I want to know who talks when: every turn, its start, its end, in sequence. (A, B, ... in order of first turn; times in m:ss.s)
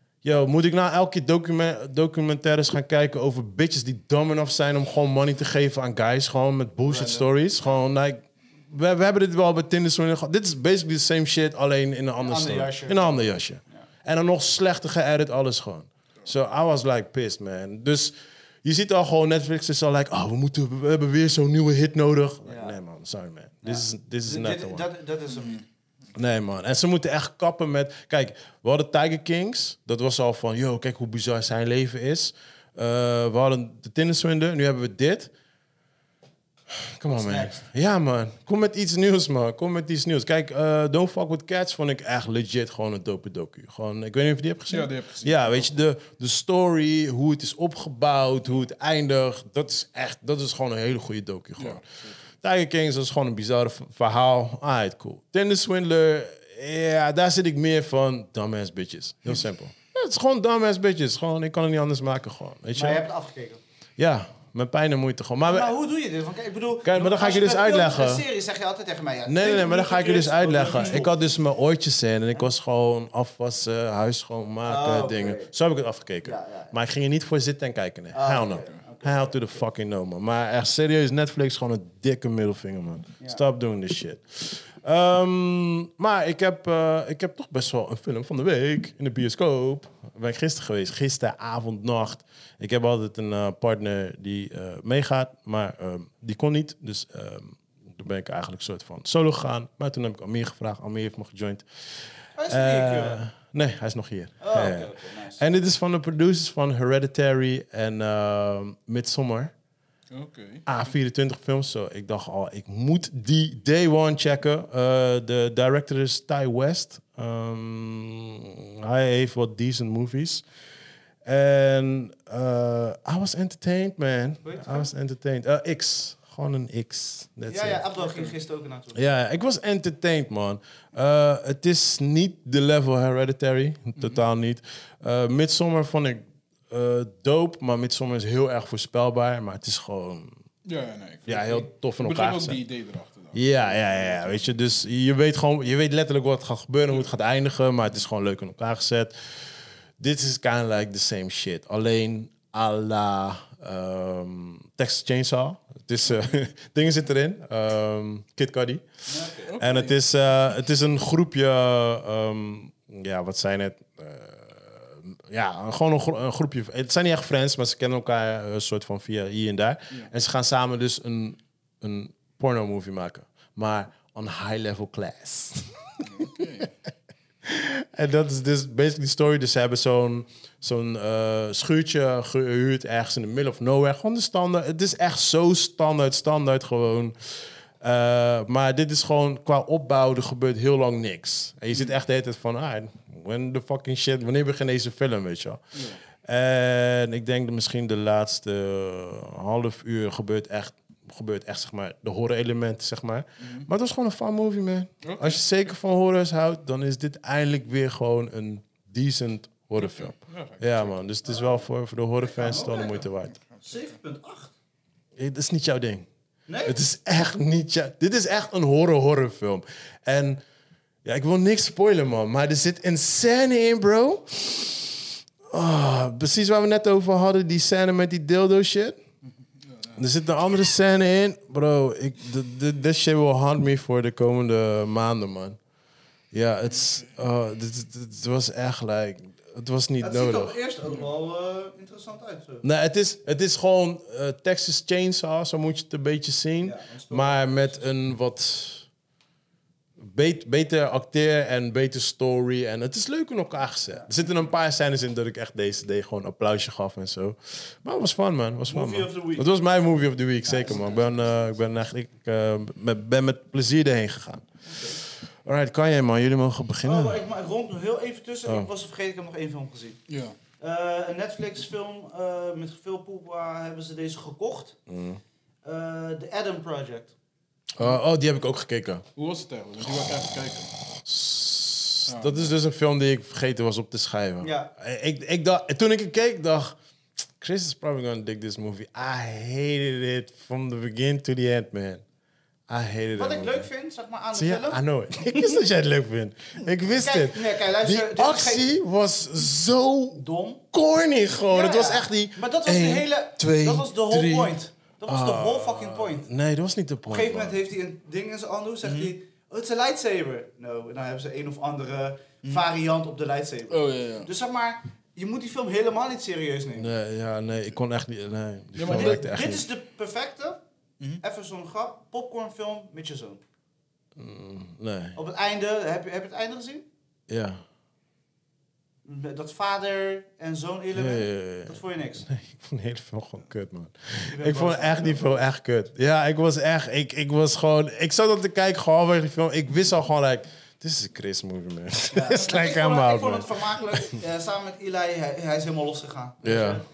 0:00.2-0:24.9 A
0:06.8-0:07.7 B
0:12.2-0:13.8 B
0:22.4-0:22.8 B
0:23.6-0:25.6 B
0:25.3-0:25.6 C
0:26.1-0:35.3 A
0:36.8-0:51.8 A
0:37.1-0:37.6 B
0:44.7-0:45.7 C
0:51.6-0:52.2 C
0:52.4-1:03.0 A
1:02.7-1:03.6 B
1:04.0-1:05.7 A
1:05.4-1:11.1 B
1:06.8-1:08.2 A
1:09.2-1:41.6 A
1:14.6-1:15.5 B
1:16.2-1:16.7 B
1:18.1-1:19.6 B
1:42.4-1:43.2 B
1:42.5-1:49.5 A
1:44.4-1:45.4 B
1:50.1-1:50.6 C
1:50.6-2:00.4 A
2:01.2-2:07.8 A
2:04.4-2:04.9 B
2:07.5-2:09.0 B
2:08.9-2:20.4 A
2:20.6-2:24.6 C
2:21.2-2:22.6 A
2:23.3-2:29.1 A
2:30.0-2:38.9 A
2:39.1-2:39.5 B
2:39.4-2:40.0 C
2:39.6-2:55.8 A
2:56.0-2:56.7 C
2:57.4-3:33.4 A
3:15.7-3:16.0 C
3:23.4-3:23.7 C
3:25.0-3:25.4 C
3:29.8-3:31.0 C
3:31.2-3:31.6 B
3:32.2-3:33.1 B
3:33.4-3:33.9 C
3:33.6-3:34.5 B
3:35.2-3:36.1 A
3:36.5-3:36.8 B
3:36.6-3:40.4 A
3:41.0-3:45.0 A
3:45.5-3:49.0 A
3:49.6-3:50.0 C
3:50.0-3:55.6 A
3:56.3-4:00.6 A
4:00.0-4:02.6 B
4:02.6-4:08.9 A
4:06.6-4:07.8 B
4:10.0-4:27.2 A
4:18.7-4:19.5 B
4:20.4-4:21.2 B
4:24.7-4:25.0 B
4:26.8-4:30.0 B
4:30.1-4:30.4 C
4:30.6-4:34.8 B
4:34.9-4:35.2 A
4:35.6-4:37.1 B
4:37.8-4:39.0 A
4:39.2-4:40.7 C
4:41.0-4:46.8 A
4:42.1-4:42.5 C
4:44.4-4:44.7 B
4:47.4-4:52.0 A
4:52.7-4:53.6 A
4:53.1-4:54.8 B
4:54.3-5:04.6 A
4:56.9-4:58.6 B
5:00.2-5:00.6 B
5:01.5-5:06.3 B
5:05.1-5:07.6 A
5:07.1-5:16.9 B
5:08.8-5:09.1 C
5:13.7-5:14.3 C
5:16.8-5:19.6 A
5:18.7-5:19.2 C
5:18.8-5:20.6 B
5:21.2-5:23.4 B
5:24.2-5:25.2 A
5:25.2-5:26.8 B
5:27.3-5:27.6 A
5:29.0-5:32.2 B
5:30.9-5:44.2 A
5:34.3-5:35.5 B
5:42.1-5:46.8 B
5:46.4-5:46.8 A